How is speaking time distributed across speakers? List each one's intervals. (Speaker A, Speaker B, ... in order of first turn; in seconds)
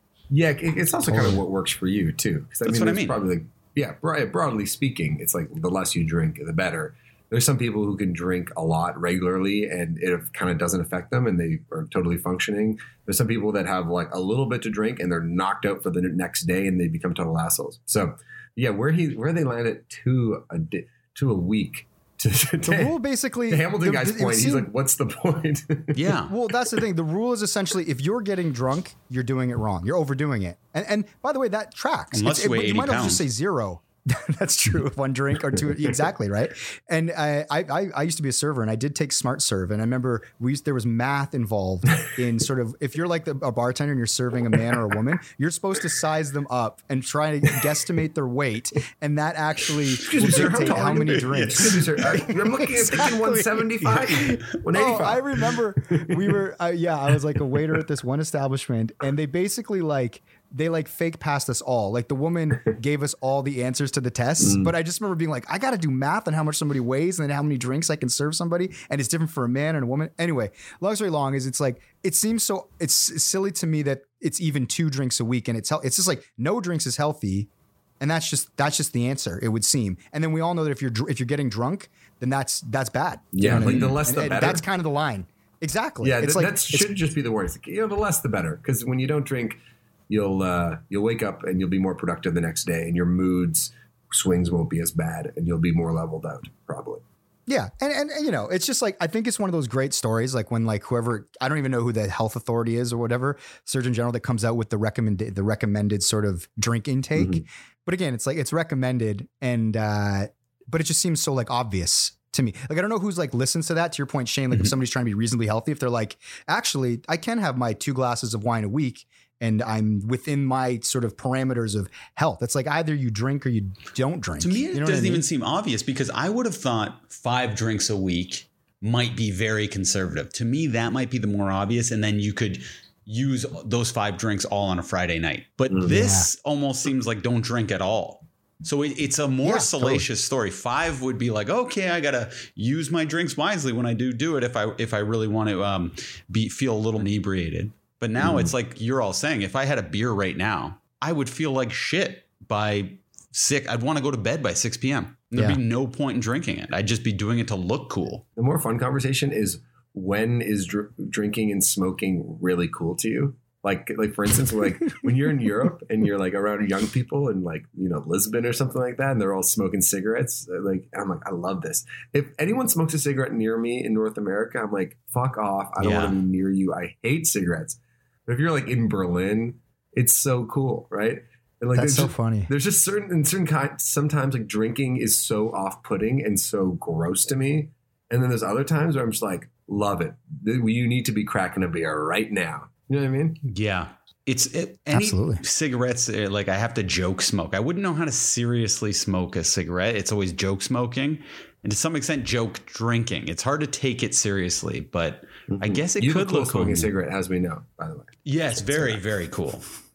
Speaker A: 0.3-22.9, 23.5-26.1, 50.0-56.4, 64.4-64.7, 83.3-84.6, 86.0-97.0, 107.2-107.4, 135.7-135.9, 148.2-148.5, 158.4-193.4, 205.5-208.2
Speaker B: 2.6-3.2, 25.9-26.3, 32.1-33.2, 50.3-52.1, 83.4-84.0, 124.4-158.2, 175.8-176.2, 193.4-206.9, 208.2-209.6
Speaker C: 22.6-24.7, 26.3-77.5, 78.0-86.9, 97.5-125.2, 135.8-136.3, 139.4-140.0, 181.7-182.5, 194.9-195.4